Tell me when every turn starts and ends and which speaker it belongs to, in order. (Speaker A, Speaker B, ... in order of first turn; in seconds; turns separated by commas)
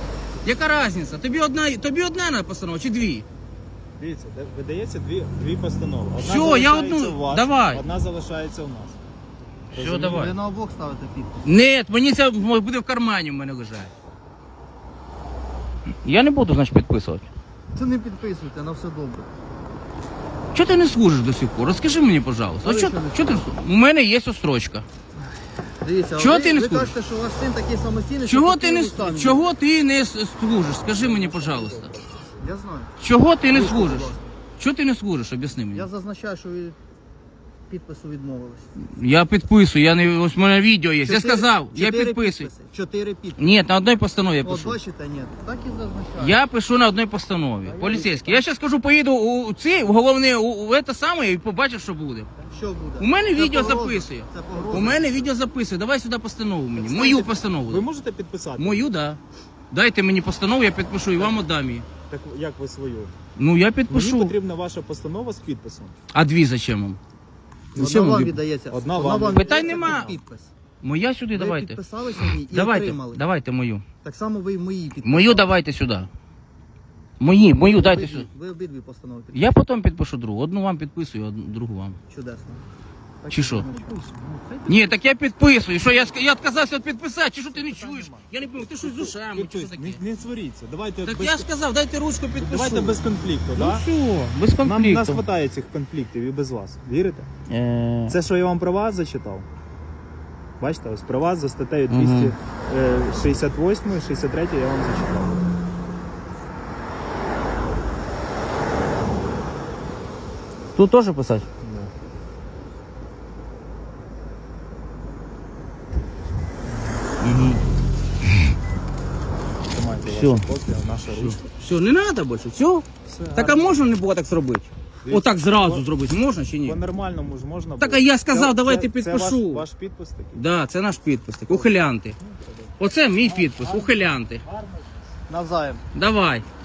Speaker A: 0.4-3.3, Speaker B: 4.0-9.0, Speaker A: 6.2-7.8, Speaker A: 9.7-10.4, Speaker B: 9.7-10.2, Speaker C: 9.9-11.5, Speaker A: 11.4-13.9, Speaker A: 16.0-17.3, Speaker C: 17.7-19.3, Speaker A: 20.5-24.9, Speaker C: 22.6-23.5, Speaker C: 25.8-29.5, Speaker A: 26.2-26.9, Speaker A: 28.3-31.9, Speaker B: 30.9-32.3, Speaker C: 32.4-32.9, Speaker A: 33.0-35.9, Speaker C: 33.5-34.3, Speaker C: 35.7-36.8, Speaker C: 37.7-38.7, Speaker A: 38.8-42.5, Speaker C: 41.0-43.5, Speaker A: 43.4-44.8, Speaker C: 44.4-46.4, Speaker A: 46.2-52.3, Speaker C: 47.6-48.4, Speaker C: 52.5-55.3, Speaker A: 53.0-57.9, Speaker C: 56.8-57.3, Speaker B: 57.7-58.9, Speaker A: 58.6-59.2, Speaker A: 59.7-61.9, Speaker B: 62.1-63.1, Speaker A: 63.4-64.4, Speaker B: 63.9-66.0, Speaker A: 66.1-67.0, Speaker A: 67.8-68.4, Speaker C: 67.8-70.5, Speaker B: 68.7-70.2, Speaker A: 69.3-70.1, Speaker A: 70.8-73.8, Speaker C: 71.3-73.2, Speaker C: 74.0-75.5, Speaker A: 75.0-76.1, Speaker A: 77.2-78.3, Speaker C: 77.6-79.6, Speaker A: 79.3-82.0, Speaker C: 82.1-82.6, Speaker C: 83.2-84.6, Speaker A: 83.3-83.7, Speaker A: 84.7-90.0, Speaker C: 87.5-89.2, Speaker B: 89.3-91.5, Speaker A: 91.0-93.0, Speaker B: 92.4-93.9, Speaker A: 93.5-95.3, Speaker B: 94.6-97.3, Speaker A: 97.5-98.2, Speaker B: 98.1-99.5, Speaker B: 100.6-105.4, Speaker A: 101.9-102.3, Speaker A: 110.8-111.5, Speaker A: 117.2-117.6, Speaker B: 119.7-121.4, Speaker A: 120.0-120.5, Speaker A: 121.1-126.8, Speaker B: 123.0-123.8, Speaker B: 125.0-125.9, Speaker B: 126.6-130.4, Speaker A: 127.8-129.7, Speaker A: 130.3-132.2, Speaker A: 132.8-134.4, Speaker B: 133.3-134.0, Speaker C: 135.3-135.8, Speaker A: 135.9-136.5